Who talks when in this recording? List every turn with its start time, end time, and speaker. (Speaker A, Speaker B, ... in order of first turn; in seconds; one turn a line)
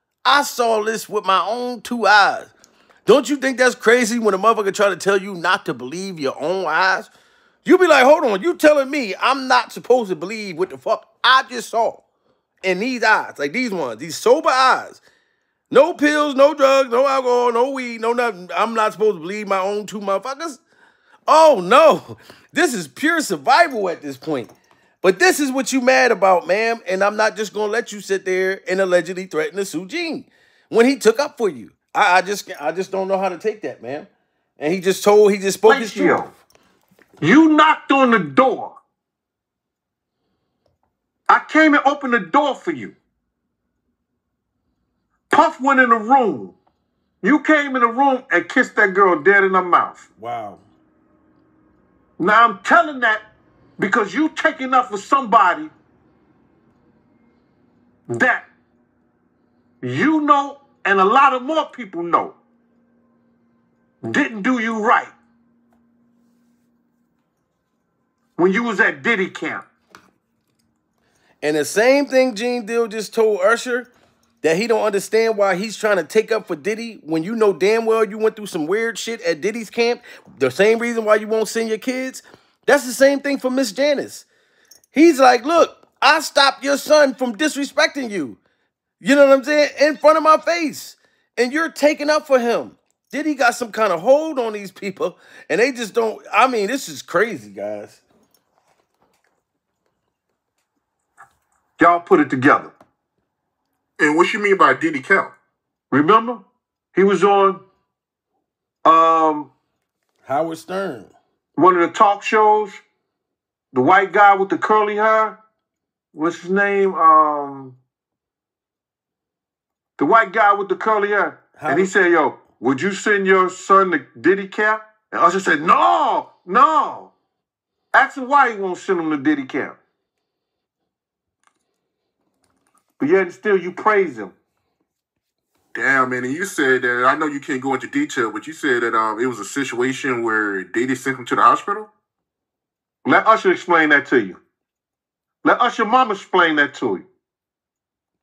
Speaker A: 0.3-2.5
Speaker A: 3.1-7.1
Speaker A: 7.7-12.0
Speaker A: 12.6-15.0
Speaker A: 15.7-20.6
Speaker A: 21.3-36.3
Speaker B: 35.6-36.3
Speaker B: 37.2-38.8
Speaker B: 41.3-43.0
Speaker B: 45.3-46.6
Speaker B: 47.2-50.1
Speaker A: 50.2-50.6
Speaker B: 52.2-53.2
Speaker B: 53.8-55.7
Speaker B: 58.1-58.5
Speaker B: 59.8-62.4
Speaker B: 64.0-65.1
Speaker B: 68.4-69.7
Speaker A: 71.4-73.9
Speaker A: 74.4-84.3
Speaker A: 84.9-88.4
Speaker A: 89.0-98.0
Speaker B: 101.8-102.7
Speaker C: 104.0-105.3
Speaker B: 105.9-107.6
Speaker B: 108.8-109.5
Speaker A: 110.3-111.1
Speaker B: 111.6-112.8
Speaker B: 113.7-115.4
Speaker B: 116.1-117.8
Speaker B: 120.0-127.1
Speaker A: 121.6-121.9
Speaker B: 127.9-129.8
Speaker B: 133.0-134.3
Speaker C: 135.7-141.9
Speaker B: 143.1-144.4
Speaker B: 145.4-147.1